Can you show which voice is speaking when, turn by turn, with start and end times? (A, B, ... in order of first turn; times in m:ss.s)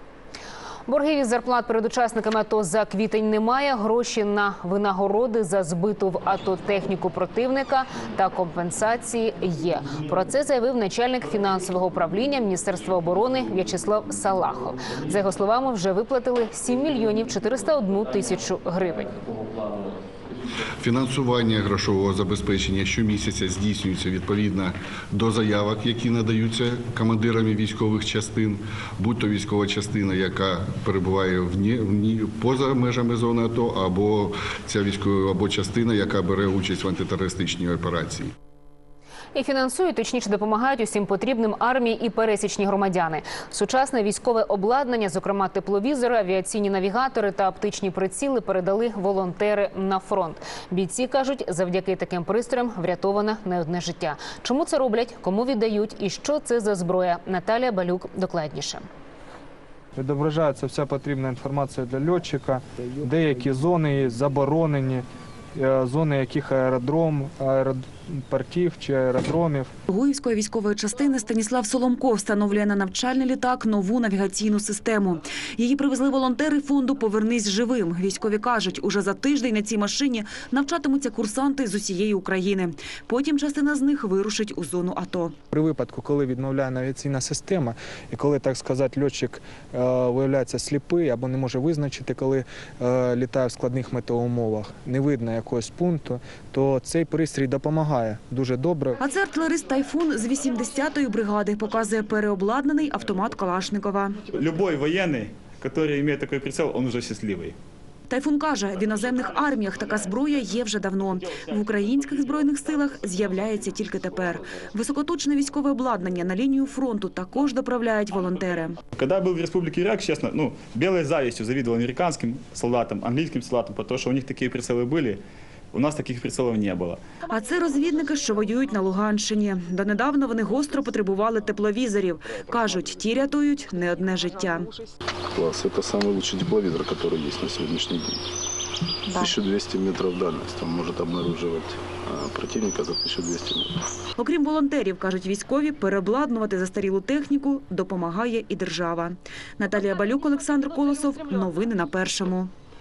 0:00.9-0:19.1 A
0:20.8-0:38.3 B
0:39.4-0:58.8 A
1:00.0-1:09.7 C
1:09.9-1:25.4 D
1:25.5-1:39.0 C
1:39.0-1:44.2 D
1:44.3-1:47.6 E
1:48.1-1:58.8 D
1:58.9-2:05.2 E
2:05.7-2:07.0 E
2:07.3-2:14.7 D
2:15.4-2:18.2 F
2:19.2-2:23.7 F
2:24.2-2:32.5 D